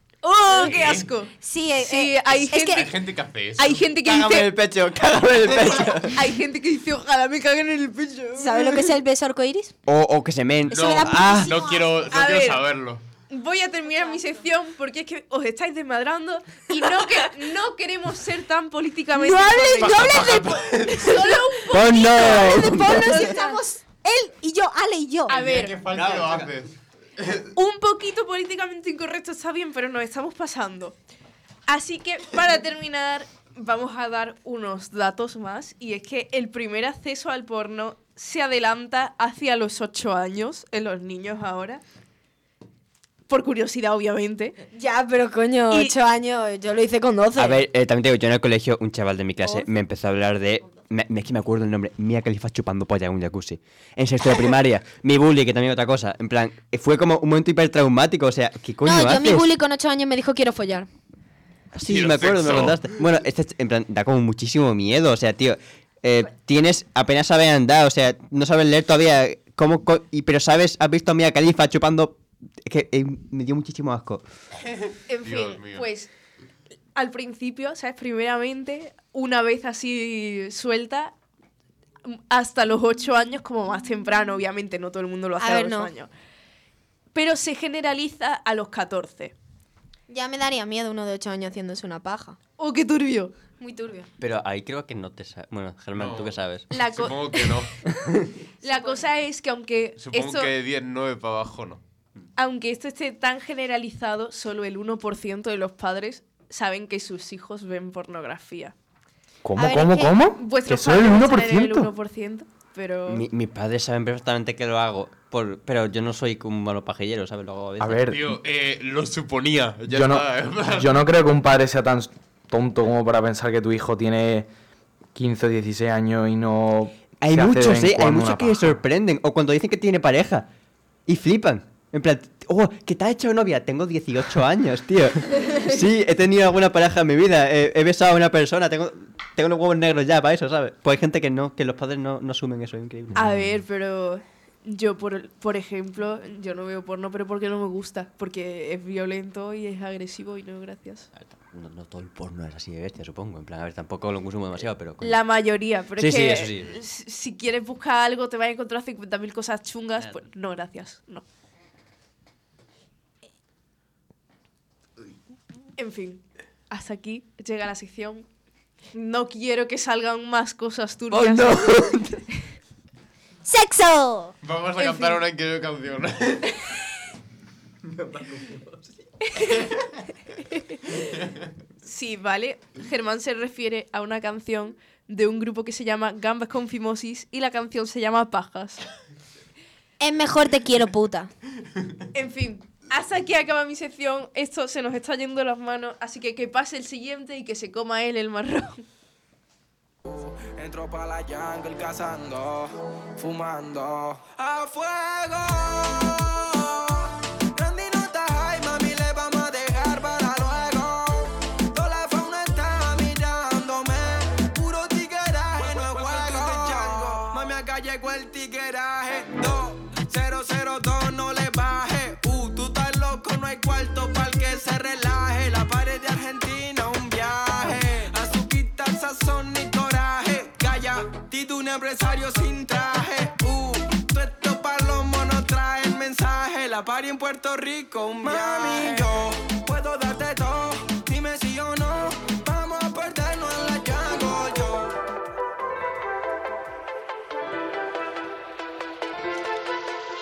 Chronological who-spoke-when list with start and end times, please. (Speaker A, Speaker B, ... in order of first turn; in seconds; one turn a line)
Speaker A: 0.2-2.9
Speaker B: 0.5-1.1
Speaker C: 1.4-2.8
Speaker B: 2.7-3.8
Speaker A: 3.6-4.5
Speaker D: 4.0-6.2
Speaker A: 6.1-8.9
Speaker C: 8.3-9.7
Speaker D: 9.8-11.5
Speaker B: 10.7-13.0
Speaker C: 10.7-11.8
Speaker A: 12.1-12.6
Speaker A: 13.3-23.6
Speaker C: 19.1-25.3
Speaker B: 19.8-21.2
Speaker D: 21.7-23.4
Speaker A: 25.3-25.8
Speaker B: 25.3-27.5
Speaker D: 25.9-26.5
Speaker A: 27.5-31.0
Speaker A: 31.7-41.8
Speaker A: 43.3-44.5
Speaker C: 44.7-47.6
Speaker D: 47.4-59.5
Speaker C: 58.8-60.9
Speaker D: 61.7-74.2
Speaker B: 61.8-62.9
Speaker A: 75.1-76.1
Speaker B: 75.2-75.9
Speaker A: 76.9-81.1
Speaker A: 82.0-86.1
Speaker C: 85.4-85.9
Speaker A: 87.1-89.3
Speaker C: 90.1-92.4
Speaker A: 92.6-93.3
Speaker C: 93.6-94.1
Speaker D: 94.2-96.6
Speaker B: 95.9-97.7
Speaker A: 96.7-97.7
Speaker D: 98.0-98.3
Speaker A: 98.6-100.5
Speaker C: 98.6-99.0
Speaker B: 100.0-101.8
Speaker A: 102.4-108.7
Speaker E: 109.4-111.9
Speaker C: 109.6-110.2
Speaker A: 110.3-113.2
Speaker D: 113.1-118.1
Speaker E: 117.8-118.3
Speaker B: 118.0-121.0
Speaker E: 119.9-124.5
Speaker E: 125.1-128.8
Speaker D: 127.2-130.5
Speaker D: 131.1-143.5
Speaker A: 143.1-151.1
Speaker D: 151.1-155.2
Speaker A: 155.0-161.2
Speaker D: 156.0-156.7
Speaker A: 165.8-168.2
Speaker A: 168.9-171.8
Speaker D: 171.1-172.2
Speaker C: 173.4-174.3
Speaker B: 174.4-176.5
Speaker A: 174.8-175.2
Speaker D: 177.9-178.8
Speaker A: 179.3-179.7
Speaker A: 181.8-188.8
Speaker C: 190.0-191.3
Speaker A: 192.1-198.8
Speaker F: 200.0-244.9